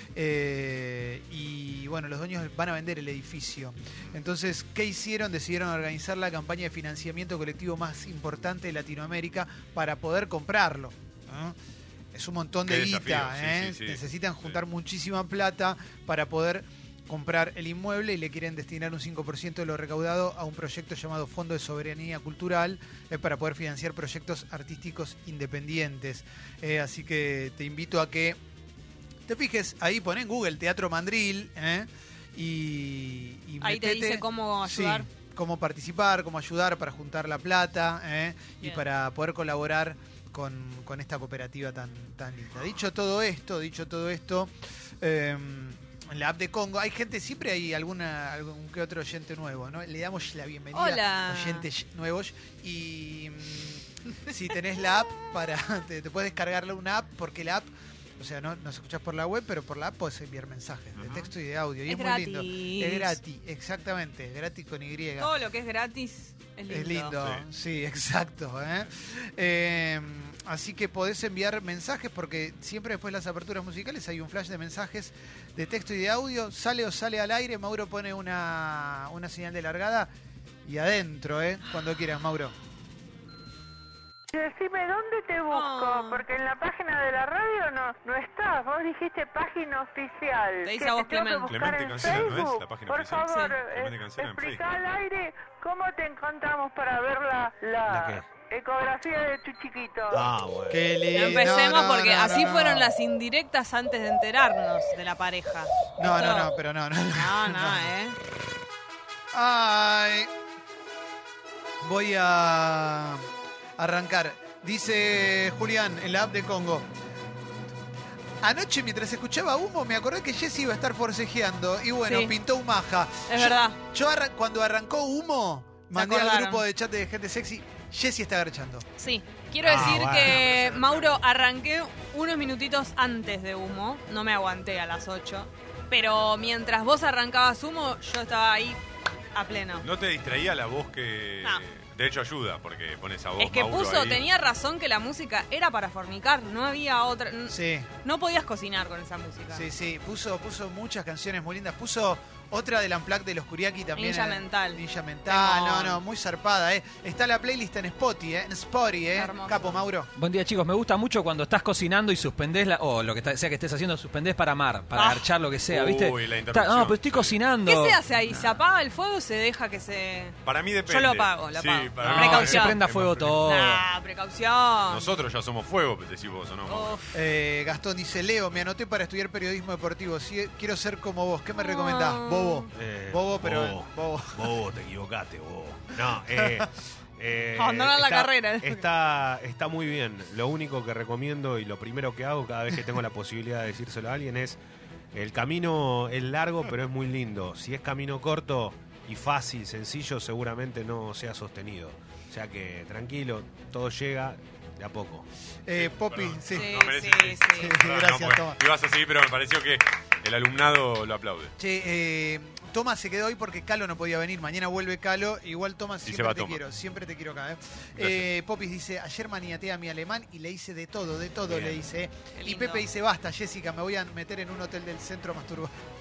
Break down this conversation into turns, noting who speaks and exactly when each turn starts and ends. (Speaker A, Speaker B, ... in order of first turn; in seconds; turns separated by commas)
Speaker A: 0.1-11.6, Speaker A: 12.1-28.4, Speaker B: 12.7-14.6, Speaker A: 29.3-65.3, Speaker C: 33.6-35.1, Speaker C: 50.7-51.7, Speaker B: 61.0-61.3, Speaker C: 61.9-63.2, Speaker C: 65.2-67.1, Speaker A: 66.7-80.1, Speaker B: 67.2-67.5, Speaker A: 80.7-82.5, Speaker D: 84.3-100.2, Speaker C: 85.5-86.2, Speaker C: 90.6-92.3, Speaker B: 91.5-94.7, Speaker C: 93.3-93.6, Speaker E: 97.9-98.3, Speaker E: 100.1-100.9, Speaker A: 100.7-102.9, Speaker C: 101.1-106.5, Speaker A: 106.0-107.9, Speaker C: 107.1-108.2, Speaker A: 109.3-110.3, Speaker A: 111.8-113.3, Speaker A: 113.8-116.9, Speaker A: 118.4-128.9, Speaker C: 122.1-122.3, Speaker C: 123.3-123.8, Speaker C: 125.9-126.7, Speaker C: 129.0-138.8, Speaker E: 129.6-130.5, Speaker C: 139.3-139.9, Speaker B: 139.8-144.2, Speaker C: 143.4-149.7, Speaker A: 147.5-147.9, Speaker A: 149.5-160.1, Speaker C: 153.9-156.0, Speaker C: 159.1-159.9, Speaker F: 160.2-168.0, Speaker C: 164.9-165.3, Speaker B: 165.7-167.5, Speaker C: 167.7-172.8, Speaker B: 170.4-173.5, Speaker F: 172.0-173.8, Speaker C: 173.4-175.1, Speaker B: 174.9-177.0, Speaker C: 176.7-177.1, Speaker A: 177.1-184.5, Speaker C: 181.6-182.7, Speaker E: 182.7-194.6, Speaker C: 187.6-188.8, Speaker E: 195.1-205.3, Speaker A: 205.7-206.7, Speaker B: 205.8-211.5, Speaker C: 206.5-207.8, Speaker A: 207.5-208.6, Speaker A: 211.6-225.7, Speaker B: 216.1-216.6, Speaker B: 218.0-218.2, Speaker C: 222.3-222.8